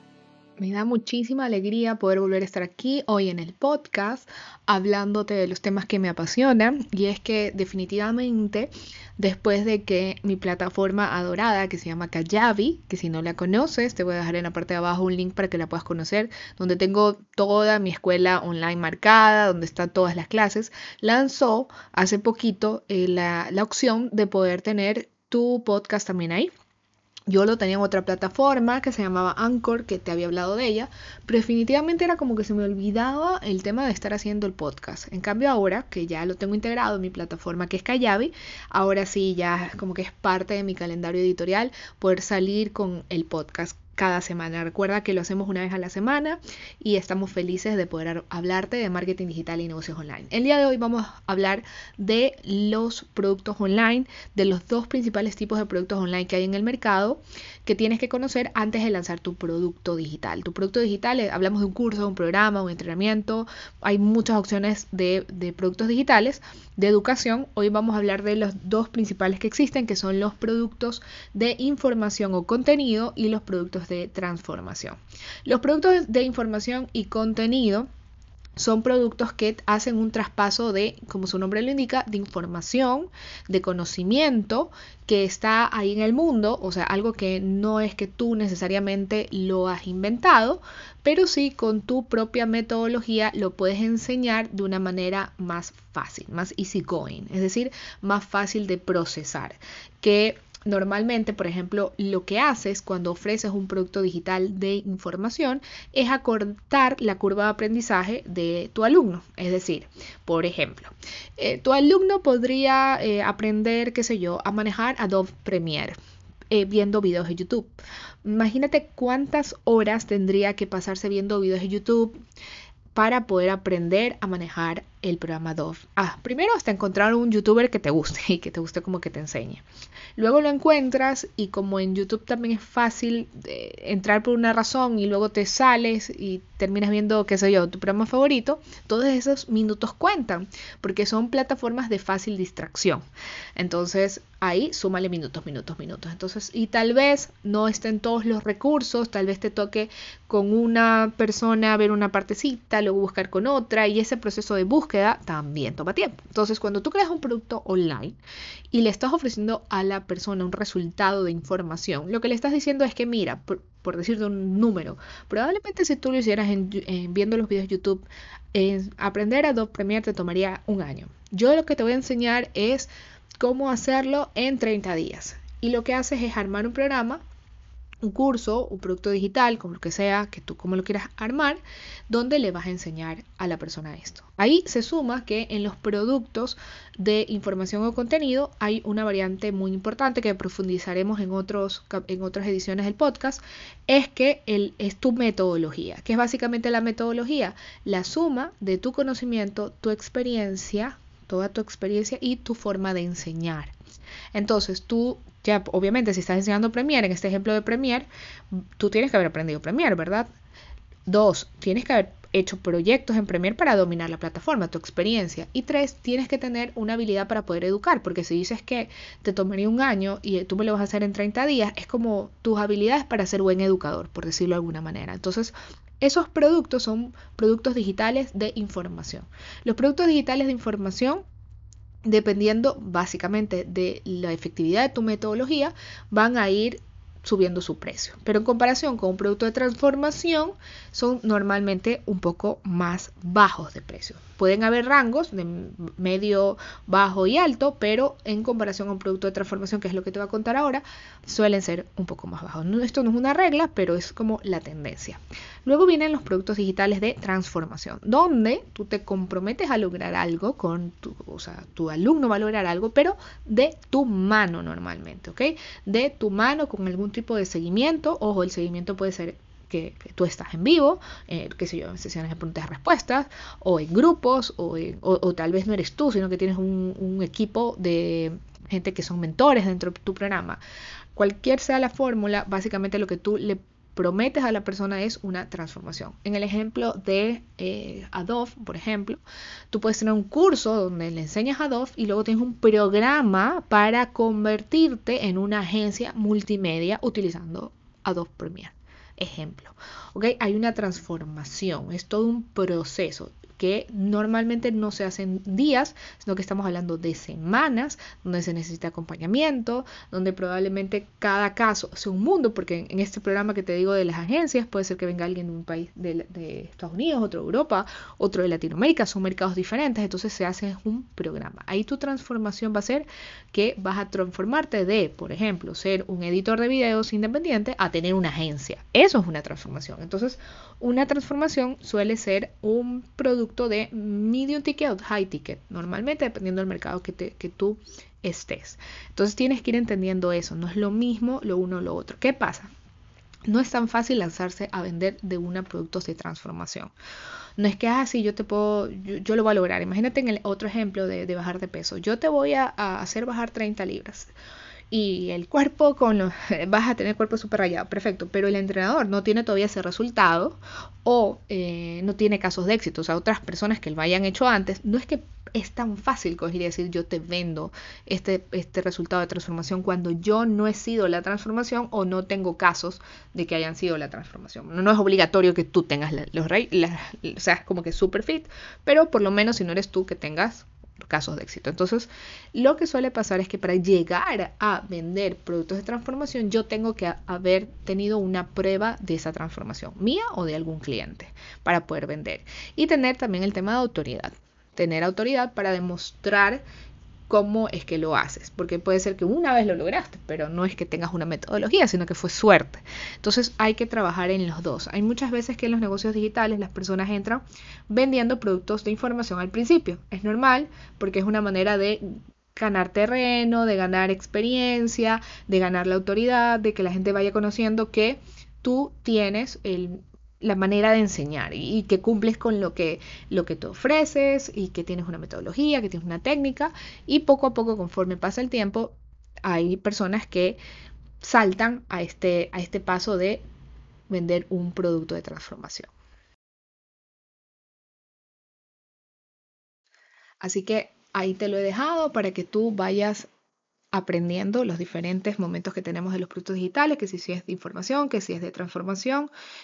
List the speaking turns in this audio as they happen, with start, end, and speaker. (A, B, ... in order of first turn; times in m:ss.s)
0:00.6-0:26.5 A
0:27.3-1:17.9 A
1:18.6-1:55.9 A
1:56.5-1:57.7 A
1:58.2-2:02.2 A
2:02.9-2:09.6 A
2:10.2-2:23.0 A
2:23.6-2:38.2 A
2:38.7-2:57.2 A
2:58.0-3:23.7 A
3:24.3-3:28.1 A
3:28.8-3:30.3 A
3:31.1-3:51.2 A
3:52.0-4:40.6 A
4:41.2-5:42.7 A
5:43.5-5:46.9 A
5:47.6-5:54.3 A
5:54.9-6:36.6 A
6:37.3-7:10.6 A
7:11.2-7:13.4 A
7:14.1-7:15.9 A
7:20.4-7:23.3 A
7:23.9-7:29.3 A